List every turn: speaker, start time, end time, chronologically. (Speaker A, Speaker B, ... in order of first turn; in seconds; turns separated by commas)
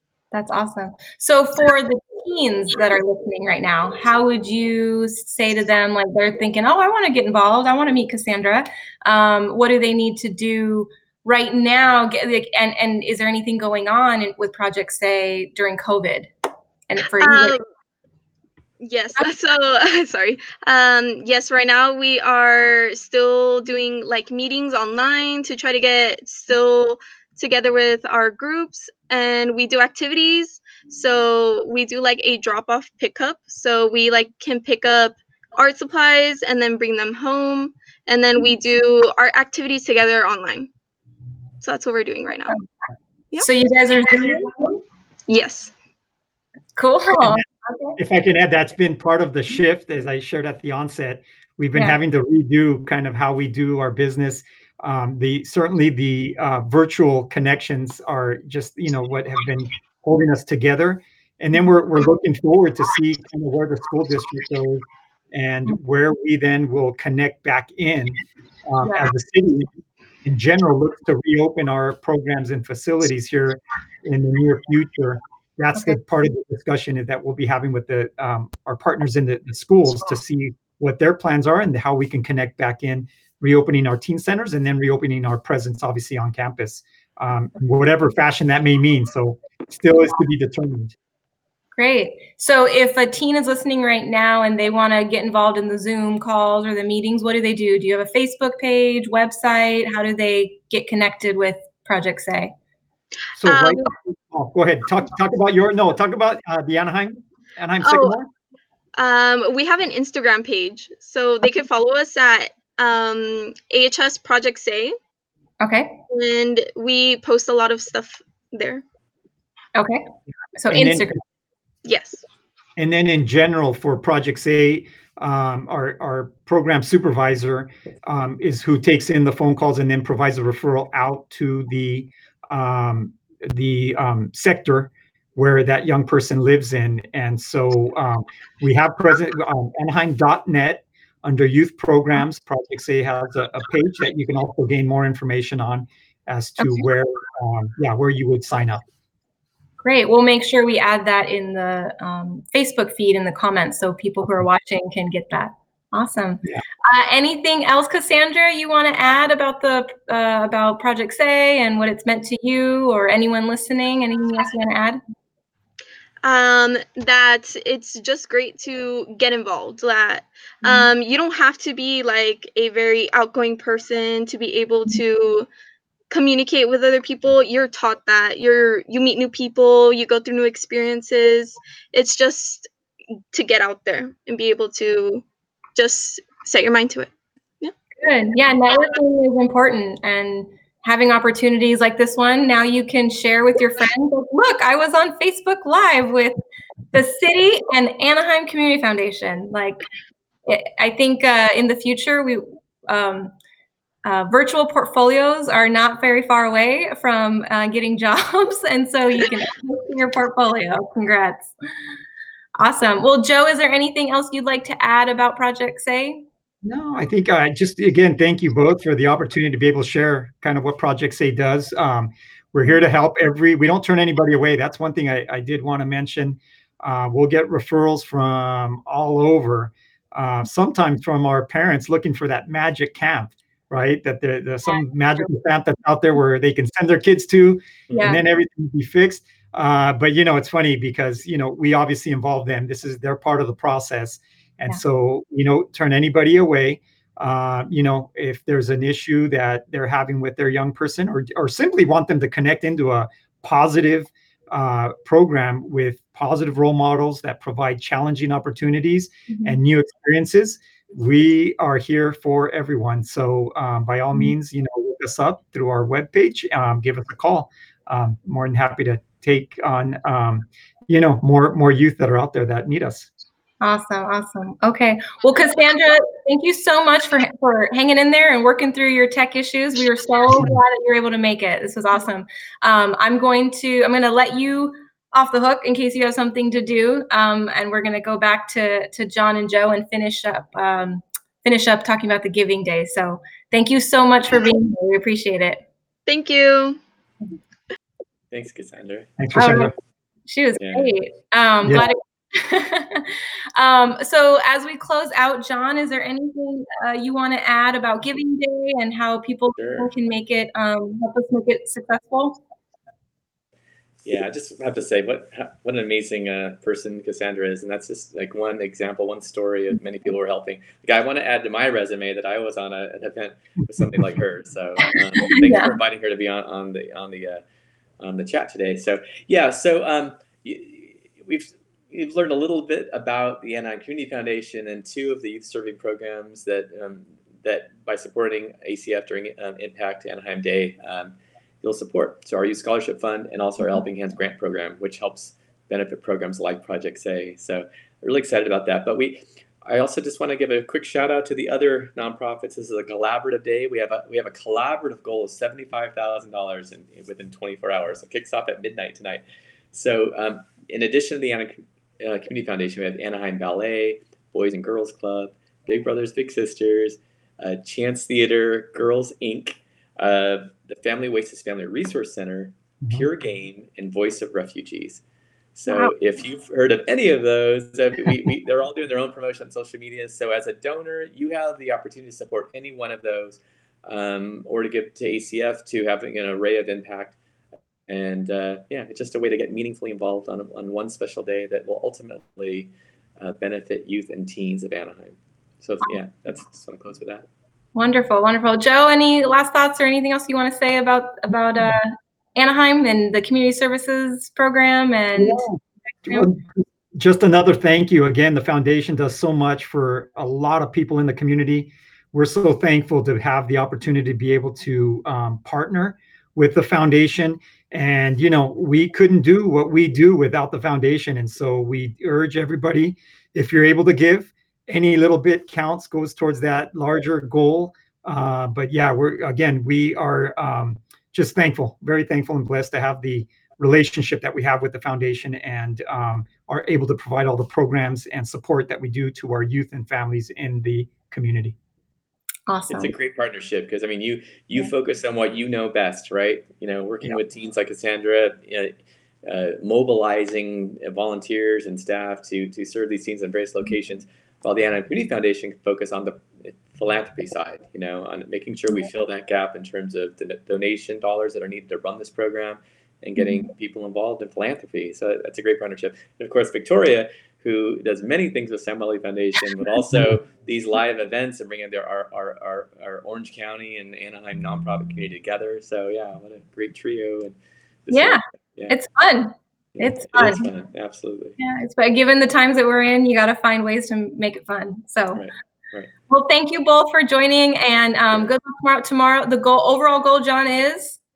Speaker A: 0.3-16.3, Speaker A: 16.9-17.6, Speaker B: 17.2-17.6, Speaker B: 18.8-40.7, Speaker B: 41.6-42.6, Speaker A: 43.4-44.8, Speaker B: 45.3-45.7, Speaker A: 46.8-48.0, Speaker C: 48.0-69.7, Speaker A: 68.8-69.1, Speaker C: 70.2-90.9, Speaker A: 91.8-102.5, Speaker C: 103.4-108.3, Speaker B: 103.4-103.8, Speaker B: 107.8-108.2, Speaker B: 109.0-115.0, Speaker A: 115.6-116.0, Speaker B: 116.1-118.8, Speaker A: 119.7-121.2, Speaker C: 120.7-121.1, Speaker B: 121.8-122.2, Speaker C: 122.8-148.8, Speaker A: 146.6-146.8, Speaker A: 149.8-165.0, Speaker B: 166.2-175.5, Speaker A: 170.6-170.9, Speaker B: 176.1-182.7, Speaker B: 183.3-185.2, Speaker B: 185.8-187.7, Speaker A: 188.0-196.4, Speaker A: 196.9-199.8, Speaker A: 200.5-203.3, Speaker A: 204.0-211.5, Speaker A: 212.6-216.2, Speaker C: 216.6-273.1, Speaker A: 237.9-238.2, Speaker A: 259.3-259.6, Speaker A: 273.6-295.6, Speaker B: 296.1-296.8, Speaker D: 298.3-299.1, Speaker C: 299.2-299.7, Speaker A: 299.3-299.7, Speaker A: 300.3-312.4, Speaker D: 300.6-300.9, Speaker D: 309.6-309.9, Speaker D: 314.0-327.4, Speaker A: 325.3-325.7, Speaker D: 328.0-375.0, Speaker D: 375.5-387.2, Speaker D: 387.9-397.3, Speaker A: 397.7-405.4, Speaker C: 405.1-441.6, Speaker A: 442.5-442.9, Speaker D: 442.7-448.7, Speaker D: 449.2-477.3, Speaker D: 477.9-478.7, Speaker A: 477.9-480.5, Speaker D: 479.7-481.4, Speaker A: 481.4-485.2, Speaker D: 485.1-485.9, Speaker A: 486.1-491.0